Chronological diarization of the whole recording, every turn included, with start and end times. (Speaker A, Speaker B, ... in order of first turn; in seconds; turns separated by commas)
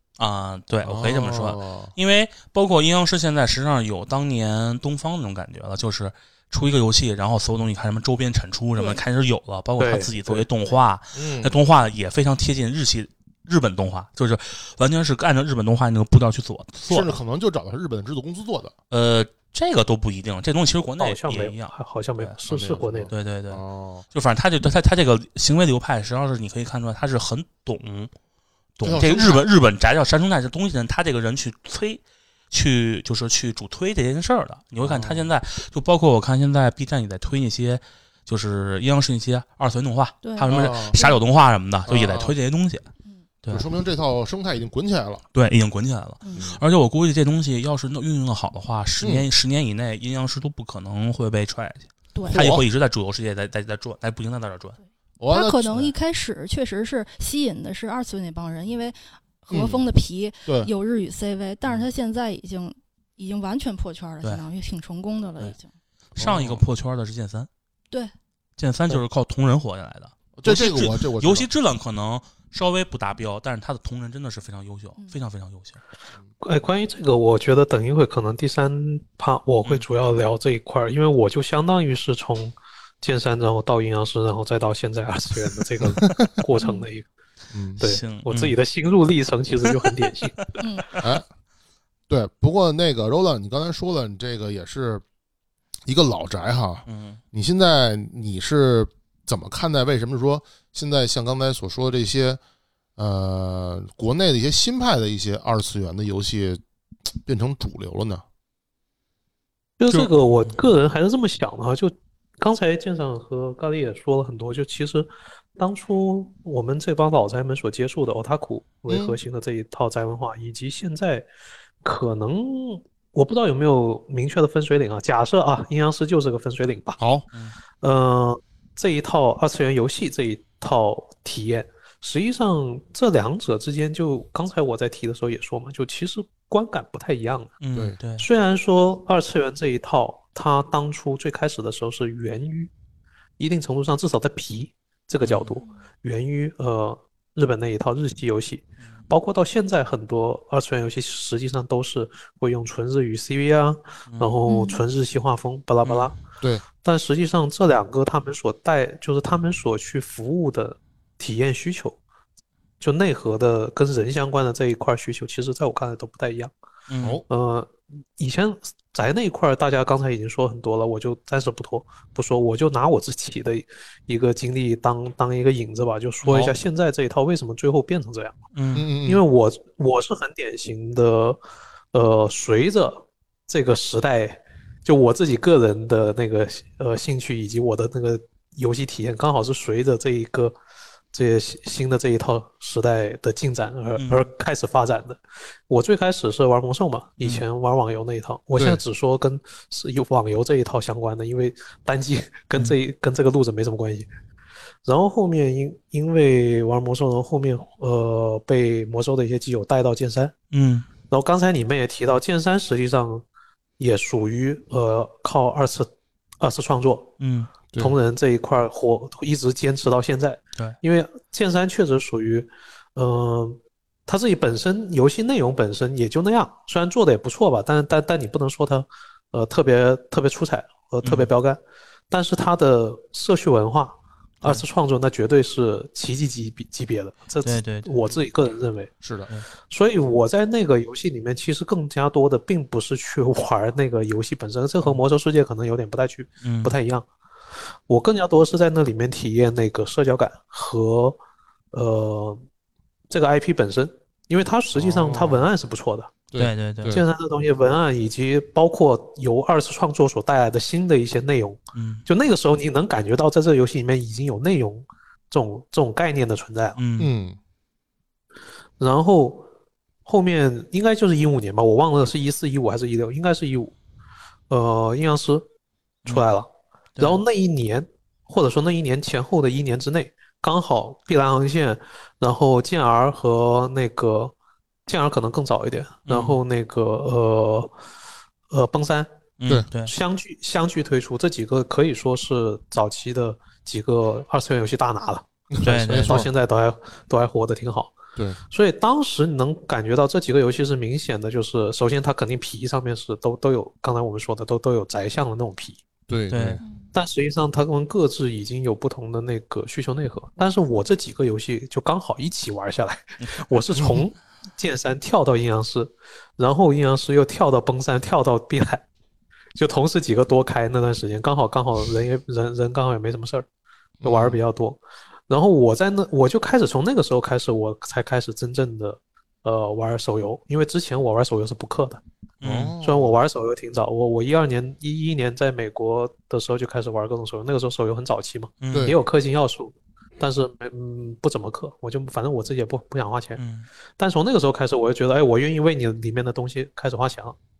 Speaker A: 0.2-17.1, Speaker B: 0.8-1.9, Speaker C: 9.8-10.5, Speaker B: 11.1-11.6, Speaker B: 16.9-18.7, Speaker A: 18.9-22.4, Speaker C: 21.0-23.1, Speaker B: 22.5-24.1, Speaker A: 23.1-23.6, Speaker A: 24.1-28.1, Speaker A: 28.8-42.9, Speaker B: 28.8-29.5, Speaker B: 34.8-35.3, Speaker D: 40.2-41.2, Speaker B: 40.5-41.0, Speaker B: 41.9-42.4, Speaker B: 43.5-45.2, Speaker A: 45.4-54.8, Speaker B: 49.0-49.3, Speaker D: 52.1-52.4, Speaker B: 52.3-52.6, Speaker B: 55.2-55.9, Speaker D: 55.3-59.0, Speaker D: 59.5-65.7, Speaker B: 59.5-59.8, Speaker A: 66.1-67.5, Speaker B: 66.2-66.6, Speaker A: 68.6-75.8, Speaker B: 70.4-71.5, Speaker C: 76.4-87.1, Speaker B: 85.8-86.3, Speaker D: 86.6-86.9, Speaker B: 87.5-87.8, Speaker A: 87.8-88.6, Speaker C: 87.8-90.5, Speaker D: 90.6-90.9, Speaker B: 92.1-95.0, Speaker B: 95.9-102.4, Speaker A: 96.9-97.2, Speaker B: 103.0-106.6, Speaker B: 107.1-108.2, Speaker C: 109.8-121.3, Speaker A: 109.9-110.5, Speaker B: 118.9-119.2, Speaker C: 121.8-127.0, Speaker B: 127.0-127.2, Speaker C: 127.8-137.6, Speaker A: 137.6-138.3, Speaker C: 138.2-142.7, Speaker C: 143.4-156.1, Speaker A: 145.2-145.6, Speaker A: 154.1-154.4, Speaker D: 154.5-154.8, Speaker A: 155.8-156.1, Speaker C: 156.8-162.0, Speaker C: 162.8-166.5, Speaker A: 166.9-167.2, Speaker C: 167.3-178.4, Speaker A: 176.2-176.5, Speaker A: 178.5-178.9, Speaker B: 178.8-179.2, Speaker C: 179.0-181.4, Speaker C: 181.9-190.6, Speaker C: 191.1-204.1, Speaker A: 194.0-194.3, Speaker C: 204.8-210.3, Speaker A: 210.5-210.9, Speaker C: 211.1-213.2, Speaker C: 213.8-217.1, Speaker A: 217.2-217.5, Speaker C: 217.8-231.6, Speaker A: 231.0-231.3, Speaker C: 232.1-238.9, Speaker A: 237.4-238.0, Speaker B: 239.0-239.3, Speaker C: 239.7-247.1, Speaker A: 246.4-246.8, Speaker C: 247.9-251.2, Speaker C: 251.7-252.4, Speaker C: 253.1-256.1, Speaker B: 254.7-255.5, Speaker B: 256.3-257.0, Speaker A: 256.4-257.0, Speaker C: 256.9-266.8, Speaker A: 261.8-262.1, Speaker A: 266.8-267.1, Speaker B: 267.0-267.4, Speaker C: 268.8-269.5, Speaker C: 270.1-273.7, Speaker C: 274.5-275.4, Speaker C: 276.1-276.5, Speaker A: 276.9-277.2, Speaker C: 277.0-284.3, Speaker C: 284.9-287.8, Speaker A: 286.1-286.4, Speaker C: 288.5-289.1, Speaker A: 289.4-289.9, Speaker C: 289.8-298.0, Speaker B: 295.6-296.3, Speaker A: 295.6-296.3, Speaker C: 298.5-305.8, Speaker B: 306.1-306.6, Speaker A: 306.3-306.6, Speaker D: 306.6-306.9, Speaker C: 306.9-318.9, Speaker C: 319.6-323.5, Speaker B: 324.0-324.4, Speaker C: 324.0-332.0, Speaker A: 332.4-332.7, Speaker B: 332.4-333.2, Speaker C: 332.8-343.4, Speaker A: 338.6-338.9, Speaker B: 338.7-339.0, Speaker A: 343.4-343.7, Speaker C: 344.0-347.4